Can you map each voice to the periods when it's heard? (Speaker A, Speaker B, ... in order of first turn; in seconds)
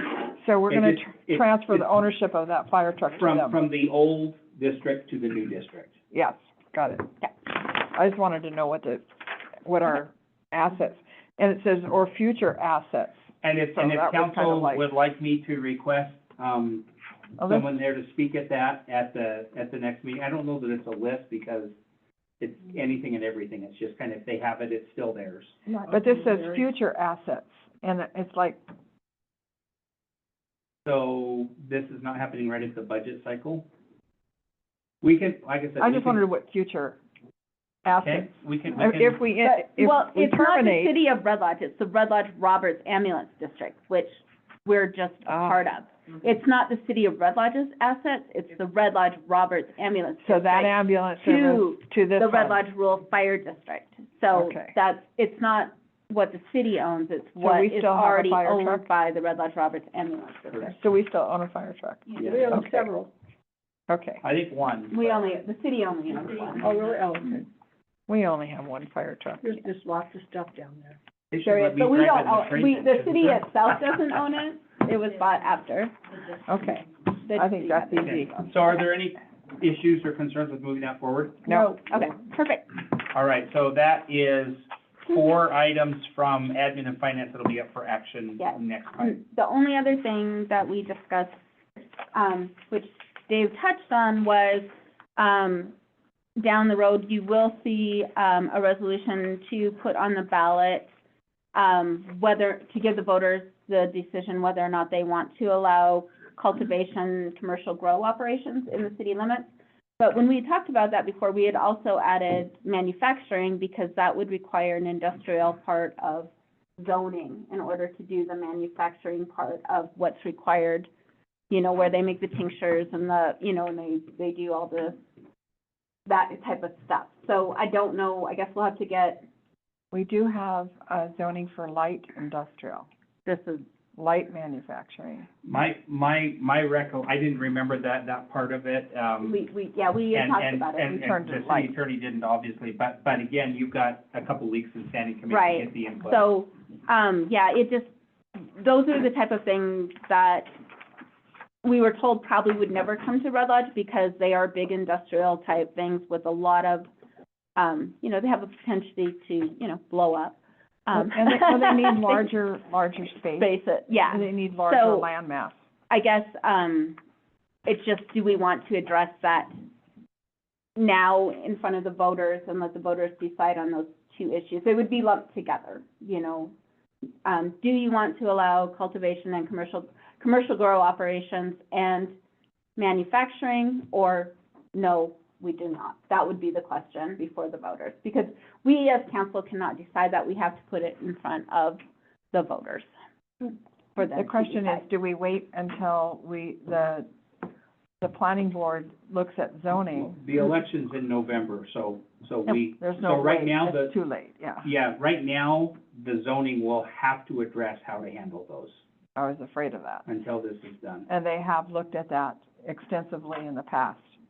Speaker A: 0.3-3.6, 6.1-9.1, 9.6-13.2, 13.7-14.9, 17.4-17.7, 25.9-28.6, 35.8-37.0, 37.9-41.0, 45.3-45.6, 50.2-52.6, 54.3-54.7, 57.4-58.9, 60.6-62.8, 63.9-64.2, 68.1-69.5, 76.5-78.3, 81.5-81.8, 129.9-132.9, 134.0-135.3, 140.9-141.7, 160.9-165.5, 194.2-197.1, 198.0-200.1, 202.5-204.7, 209.2-210.1, 211.1-214.1
Speaker B: 0.7-1.9, 3.2-5.9, 13.4-16.9, 17.4-21.7, 22.4-25.6, 30.9-33.7, 35.0-36.2, 38.0-39.2, 62.2-62.5, 64.2-65.2, 71.3-73.5, 78.0-81.7, 83.1-89.1, 135.4-139.4, 140.1-146.2, 199.9-203.9, 204.6-208.8, 210.1-211.1
Speaker C: 39.4-44.1, 44.6-60.8, 64.9-66.7, 71.4-75.9, 77.2-78.5, 81.5-82.6, 88.4-91.4, 92.1-95.7, 96.4-100.9, 101.5-109.5, 110.0-120.9, 121.5-125.0, 126.1-129.2, 133.3-133.7, 139.2-141.0, 145.3-150.5, 151.6-156.9, 157.6-162.3, 163.4-165.1, 165.9-167.0, 167.7-169.5, 170.8-176.5, 177.2-182.1, 182.8-191.8, 192.3-192.9, 193.4-194.8
Speaker D: 62.2-63.1, 66.6-67.5, 69.4-71.0